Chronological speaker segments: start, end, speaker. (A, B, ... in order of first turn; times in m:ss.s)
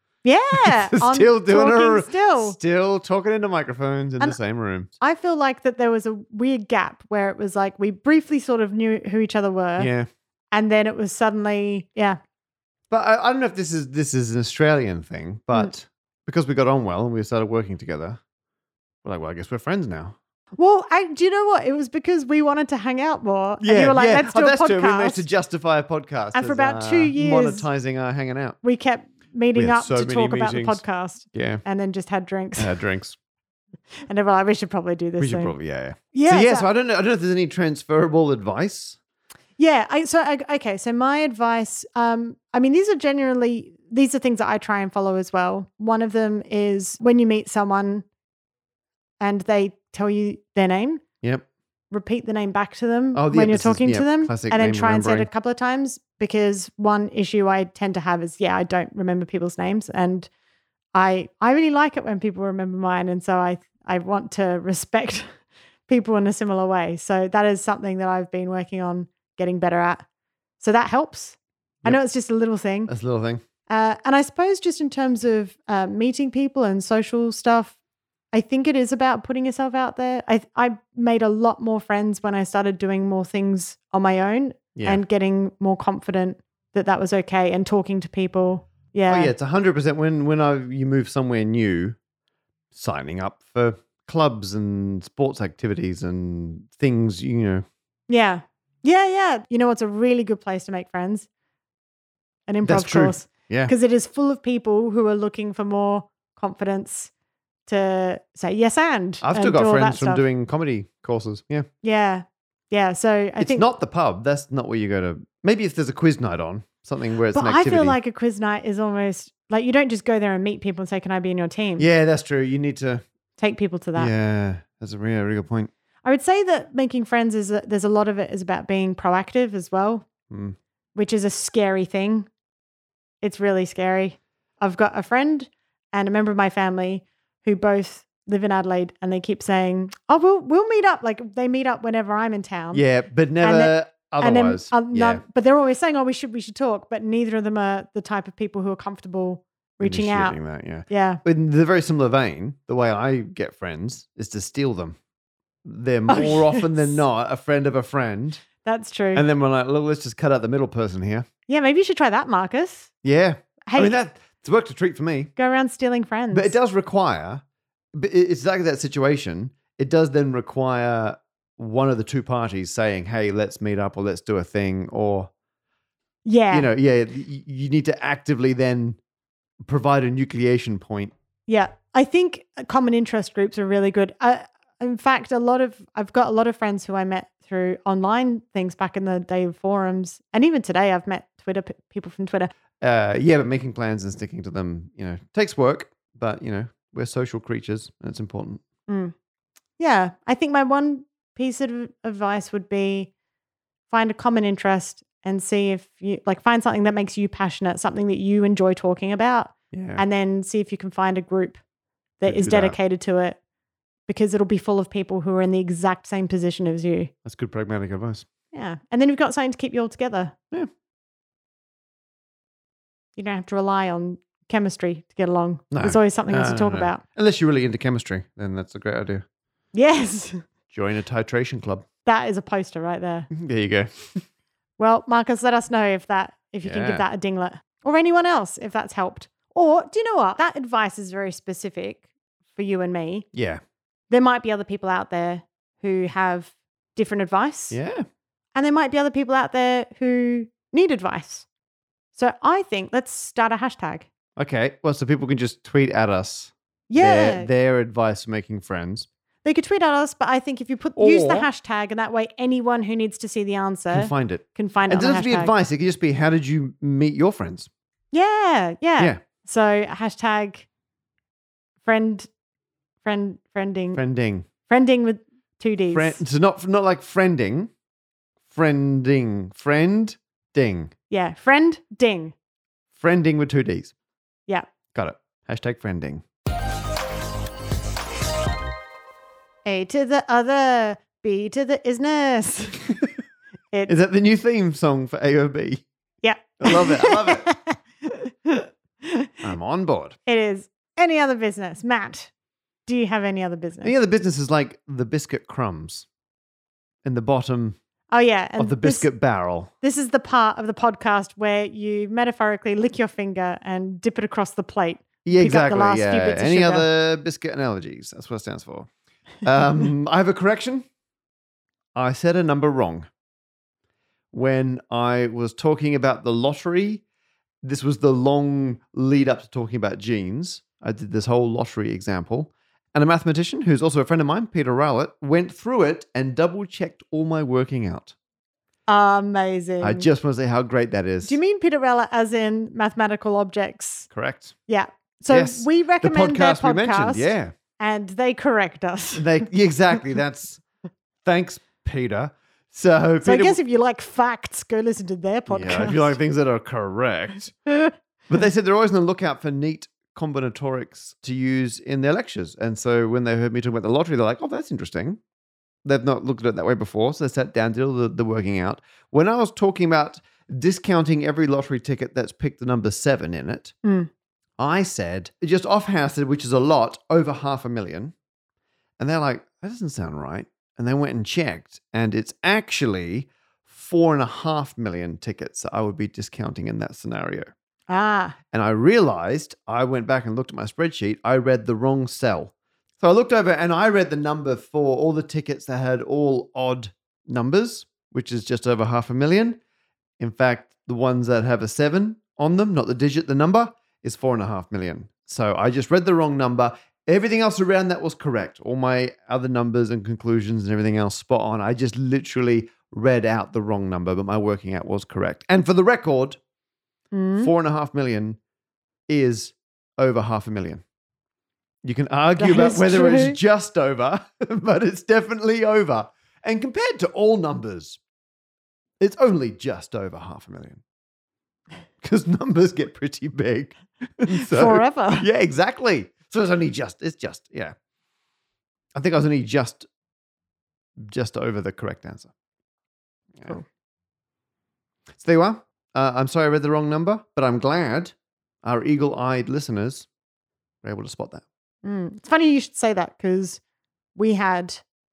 0:00.2-0:02.6 A
0:00.5-0:04.9 B
0:05.0-0:09.9 A
0:09.8-0:10.1 B
0:10.5-0:12.2 A
0:12.9-0:18.2 B
0:19.0-0:20.2 B
0:20.6-0:25.2 A
0:23.6-0:28.6 B
0:26.3-0:27.6 A
0:28.6-0:32.8 A
0:29.5-0:31.6 B
0:32.6-0:33.2 B
0:34.0-0:35.5 A
0:35.2-0:39.0 B
0:36.1-0:36.7 A
0:39.6-0:48.0 A
0:49.2-0:51.0 A
0:51.9-1:00.3 A
0:53.1-0:55.3 B
1:00.9-1:05.3 A
1:05.9-1:10.0 A
1:10.6-1:12.9 A
1:12.9-1:13.4 B
1:13.7-1:17.7 A
1:18.3-1:29.3 A
1:24.7-1:25.0 B
1:29.1-1:32.0 B
1:32.7-1:37.6 B
1:38.1-1:41.3 A
1:42.5-1:47.1 A
1:42.6-1:43.7 B
1:47.7-1:50.2 A
1:49.2-1:51.7 B
1:51.8-1:53.6 A
1:53.4-1:58.0 B
1:57.3-2:01.9 A
2:01.8-2:03.0 B
2:03.4-2:04.1 A
2:04.0-2:05.7 B
2:06.0-2:10.0 A
2:10.3-2:10.6 B
2:10.9-2:12.3 A
2:13.2-2:22.8 A
2:22.7-2:25.2 B
2:23.4-2:30.4 A
2:29.8-2:35.0 B
2:30.9-2:31.2 A
2:35.6-2:38.4 B
2:36.1-2:37.0 A
2:38.6-2:39.2 A
2:39.1-2:41.2 B
2:41.5-2:42.9 A
2:43.0-2:45.3 B
2:43.7-2:44.0 A
2:45.4-2:46.5 A
2:46.3-2:47.4 B
2:47.9-2:55.3 B
2:56.2-2:56.7 A
2:56.5-2:59.0 B
2:59.6-3:01.1 B
3:01.5-3:12.5 A
3:12.8-3:18.6 B
3:18.9-3:19.1 A
3:19.8-3:23.1 A
3:23.9-3:31.6 A
3:29.7-3:30.0 B
3:32.2-3:33.4 A
3:32.2-3:32.8 B
3:34.1-3:37.1 A
3:37.2-3:38.2 B
3:38.5-3:40.3 A
3:43.2-3:47.0 A
3:45.7-3:49.2 B
3:49.7-3:50.4 A
3:50.7-3:51.8 B
3:52.0-3:53.3 A
3:53.3-3:54.2 B
3:54.8-4:02.0 A
3:56.6-3:57.0 B
4:02.6-4:03.2 A
4:03.3-4:03.6 B
4:04.1-4:07.8 A
4:07.7-4:08.0 B
4:08.5-4:11.4 A
4:12.1-4:14.1 A
4:14.4-4:19.1 B
4:16.9-4:17.5 A
4:19.4-4:25.5 A
4:21.0-4:21.5 B
4:23.9-4:27.7 B
4:28.1-4:30.6 A
4:31.8-4:32.3 A
4:33.0-4:34.0 A
4:33.9-4:34.5 B
4:34.6-4:36.2 A
4:35.9-4:37.7 B
4:38.5-4:40.9 B
4:41.1-4:42.3 A
4:42.9-4:43.9 B
4:44.9-4:46.2 B
4:49.6-4:52.8 A
4:53.9-4:55.8 B
4:56.2-4:59.4 A
4:56.6-4:57.5 B
4:59.4-5:00.2 B
5:00.2-5:02.3 A
5:02.9-5:03.9 A
5:03.8-5:06.1 B
5:07.0-5:07.8 B
5:08.1-5:09.1 A
5:08.6-5:09.7 B
5:09.8-5:16.9 A
5:15.2-5:18.9 B
5:19.4-5:20.8 B
5:21.9-5:23.1 B
5:24.3-5:27.0 B
5:27.6-5:38.1 B
5:38.9-5:40.1 A
5:39.8-5:41.4 B
5:41.2-5:44.1 A
5:44.1-5:44.6 B
5:44.7-5:49.4 A
5:45.3-5:47.5 B
5:49.2-5:50.6 B
5:51.2-5:53.6 B
5:53.2-5:56.2 A
5:55.5-5:57.6 B
5:58.3-6:05.2 B
6:05.8-6:13.7 B
6:13.8-6:14.1 A
6:14.6-6:18.1 B
6:19.0-6:27.5 B
6:27.9-6:28.4 A
6:28.5-6:39.6 B
6:40.2-6:56.4 B
6:57.1-6:57.5 A
6:57.4-6:58.4 B
6:59.1-7:00.8 B
7:01.8-7:08.0 B
7:02.4-7:03.4 A
7:09.0-7:10.8 B
7:12.0-7:17.7 B
7:14.3-7:15.3 A
7:18.9-7:19.8 B
7:21.0-7:22.3 B
7:25.2-7:30.1 B
7:30.8-7:31.4 B
7:31.8-7:33.6 A
7:34.2-7:34.8 A